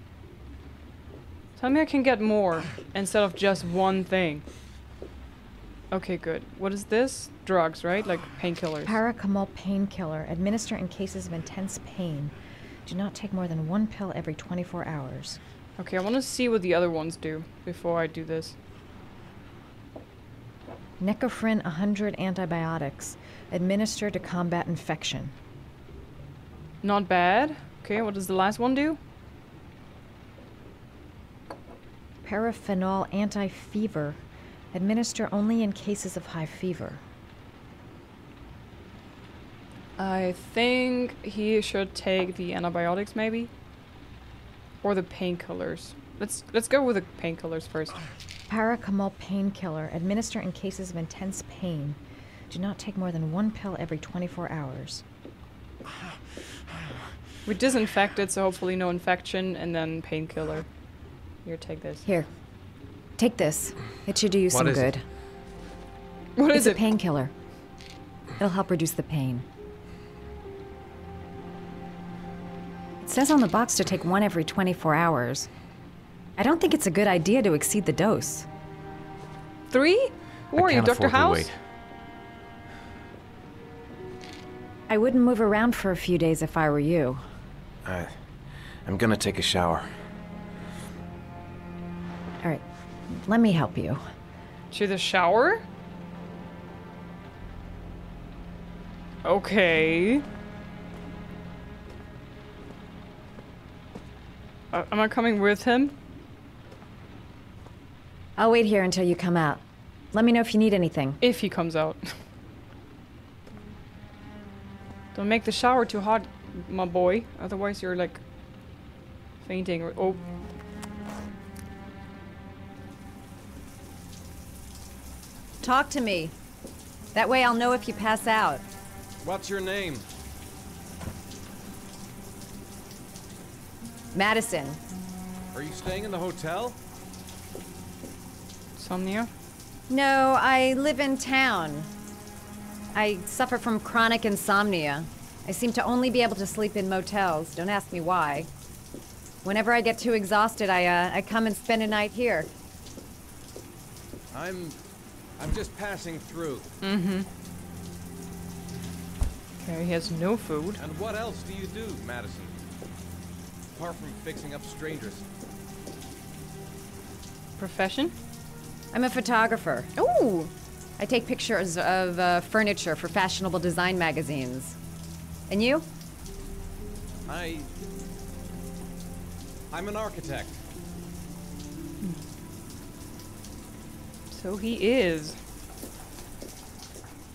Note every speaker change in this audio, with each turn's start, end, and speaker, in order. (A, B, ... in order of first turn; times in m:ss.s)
0:01.6-0:04.4 A
0:05.9-0:09.0 A
0:08.8-0:12.3 B
0:12.8-0:15.4 B
0:15.8-0:18.6 A
0:21.0-0:25.4 B
0:26.8-0:29.0 A
0:32.2-0:37.0 B
0:40.0-0:43.5 A
0:44.8-0:48.0 A
0:48.5-0:55.0 B
0:57.5-1:00.7 A
1:01.4-1:02.0 A
1:03.2-1:05.0 B
1:04.5-1:04.9 C
1:06.4-1:06.8 A
1:06.5-1:07.3 B
1:08.4-1:09.5 B
1:13.0-1:15.5 B
1:16.4-1:18.5 B
1:19.7-1:21.5 A
1:20.5-1:21.5 C
1:24.9-1:27.2 B
1:27.8-1:28.2 C
1:28.8-1:29.9 C
1:32.4-1:34.0 B
1:34.7-1:35.6 A
1:39.2-1:40.2 A
1:44.7-1:46.0 A
1:48.4-1:51.2 B
1:51.2-1:52.1 A
1:55.1-1:58.2 A
1:59.4-2:00.2 A
2:05.6-2:06.4 B
2:07.1-2:08.6 B
2:09.2-2:10.0 C
2:14.1-2:14.8 B
2:15.5-2:16.8 C
2:18.8-2:19.3 A
2:19.9-2:21.9 B
2:22.9-2:28.5 B
2:29.4-2:32.5 B
2:34.3-2:34.8 C
2:35.4-2:36.7 C
2:36.8-2:37.3 A
2:39.6-2:40.8 A
2:40.8-2:42.6 C
2:43.8-2:45.2 C
2:47.6-2:48.1 A
2:48.9-2:49.9 B
2:50.0-2:50.5 A
2:51.0-2:54.8 B
2:55.5-2:55.9 B
2:57.3-2:57.7 C
2:59.7-3:00.6 C
3:04.3-3:05.4 A